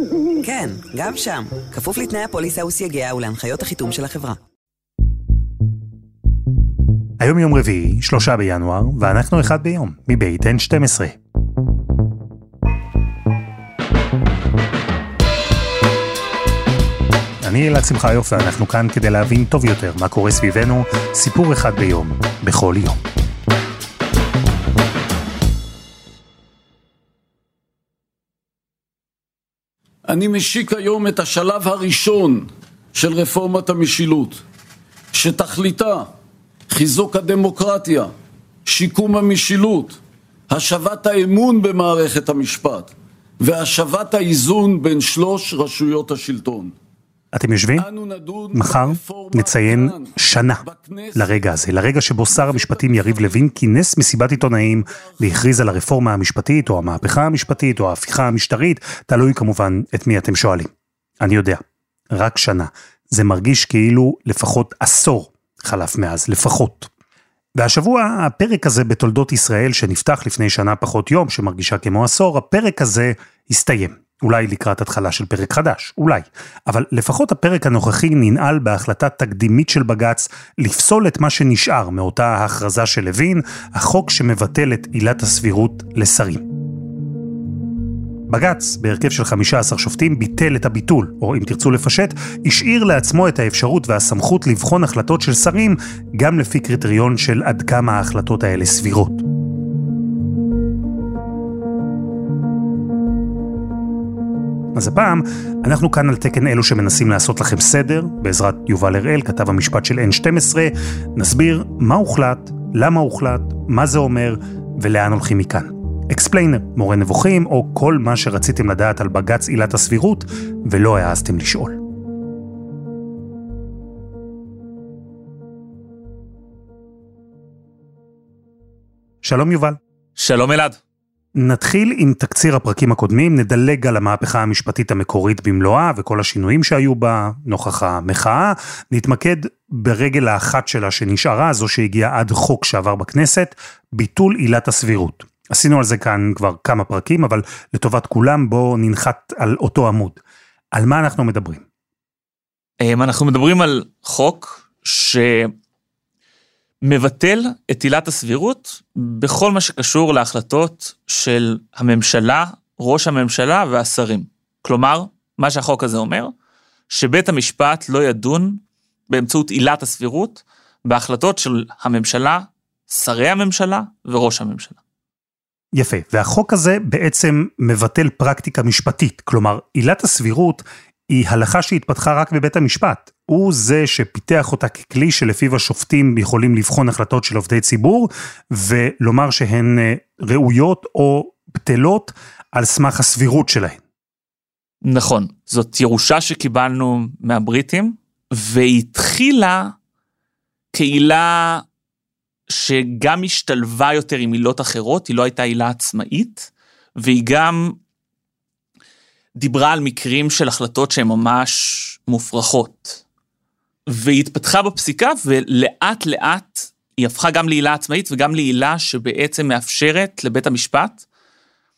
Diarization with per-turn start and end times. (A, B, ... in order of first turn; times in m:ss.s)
0:00.4-0:04.4 A
0:07.2-0:11.2 B
0:17.4-0:23.0 B
0:30.1-0:34.4 C
0:35.1-0:36.1 C
0:36.7-0:38.1 C
0:38.6-0:40.0 C
0:40.5-0:46.7 C
0:47.3-0:47.8 B
0:47.8-0:51.3 C
0:48.5-0:50.6 B
0:51.1-1:06.9 B
0:52.4-0:53.4 C
1:07.6-1:26.4 B
1:28.3-1:39.2 B
1:44.7-2:01.8 B
2:09.2-2:09.8 B
2:10.2-2:10.8 D
2:11.4-2:30.2 B
2:30.7-2:31.6 B
2:32.8-2:35.5 D
2:36.8-2:46.3 D
2:46.9-2:54.8 D
2:55.7-3:13.8 B
3:14.8-3:19.7 D
3:20.7-3:21.6 D
3:22.5-3:27.8 D
3:29.4-3:33.0 D
3:33.9-3:41.0 D